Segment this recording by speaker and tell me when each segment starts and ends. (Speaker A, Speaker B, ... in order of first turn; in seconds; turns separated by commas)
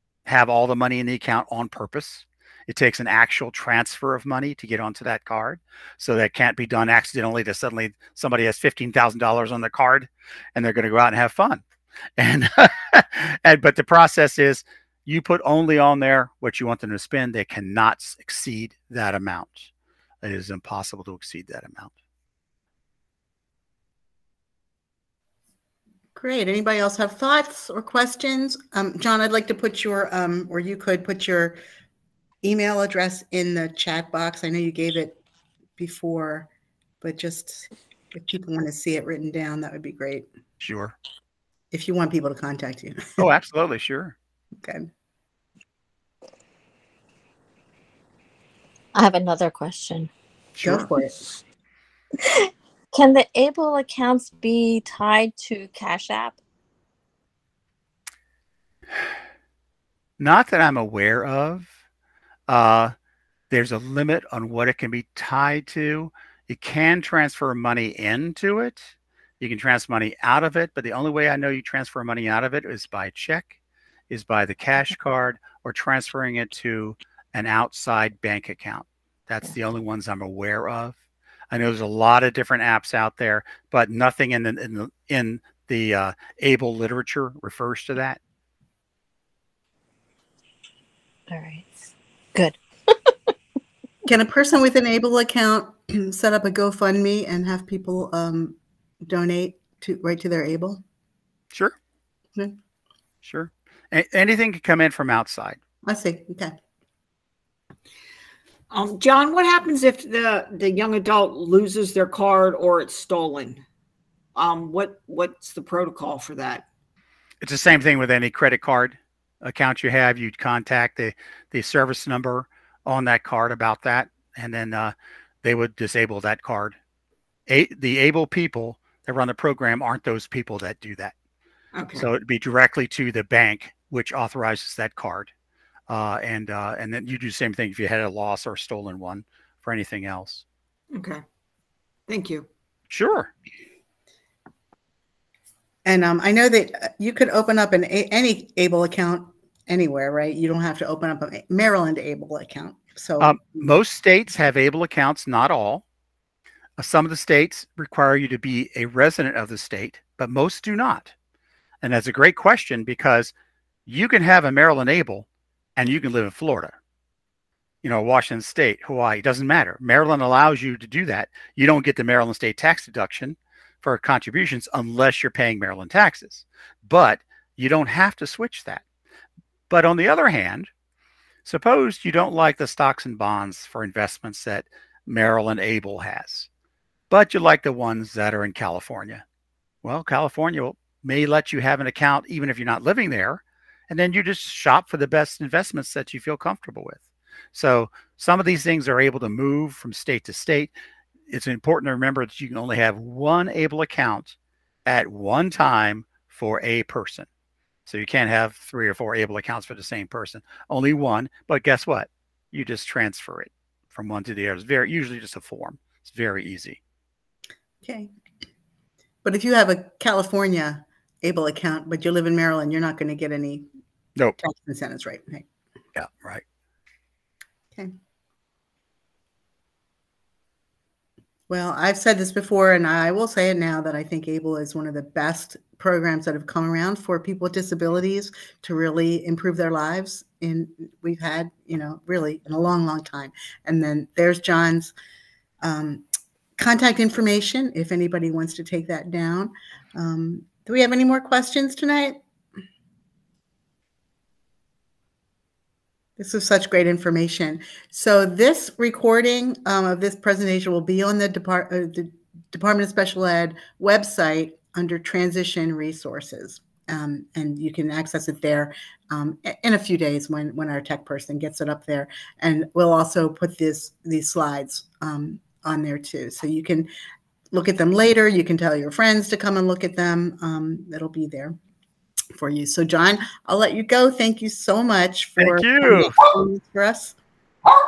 Speaker A: 0.2-11.6, Speaker A: 12.2-19.7, Speaker A: 20.2-21.9, Speaker B: 26.1-31.6, Speaker B: 32.4-35.2, Speaker B: 35.8-36.5, Speaker B: 37.0-40.3, Speaker A: 40.6-41.0, Speaker B: 41.7-43.2, Speaker A: 43.2-44.1, Speaker B: 44.6-44.9, Speaker C: 48.9-50.1, Speaker A: 50.6-50.9, Speaker B: 50.6-51.1, Speaker D: 51.0-51.4, Speaker C: 52.2-56.4, Speaker A: 60.2-61.7, Speaker A: 62.5-62.9, Speaker A: 63.5-73.5, Speaker A: 74.1-81.0, Speaker A: 81.5-88.2, Speaker C: 91.3-91.7, Speaker C: 92.3-93.1, Speaker B: 94.0-100.8, Speaker A: 103.2-105.6, Speaker B: 105.8-106.5, Speaker D: 108.7-113.6, Speaker D: 114.3-116.7, Speaker A: 117.4-126.8, Speaker A: 127.5-131.1, Speaker D: 131.7-132.1, Speaker A: 131.9-135.3, Speaker A: 135.9-140.4, Speaker D: 140.9-141.2, Speaker D: 142.1-142.4, Speaker A: 142.9-143.3, Speaker B: 145.8-153.4, Speaker A: 153.2-155.8, Speaker A: 156.8-161.1, Speaker A: 161.8-163.3, Speaker A: 163.8-166.8, Speaker A: 167.8-178.8, Speaker A: 179.7-180.7, Speaker A: 181.4-186.5, Speaker A: 187.1-189.2, Speaker A: 189.8-197.0, Speaker A: 197.5-200.7, Speaker A: 201.3-207.3, Speaker A: 207.8-216.8, Speaker B: 217.8-218.1, Speaker B: 219.2-223.7, Speaker B: 224.4-225.4, Speaker A: 225.9-226.4, Speaker B: 231.5-244.9, Speaker B: 245.6-246.0, Speaker B: 246.6-252.2, Speaker B: 256.2-276.9, Speaker B: 277.5-281.6, Speaker B: 282.3-287.2, Speaker A: 285.4-286.1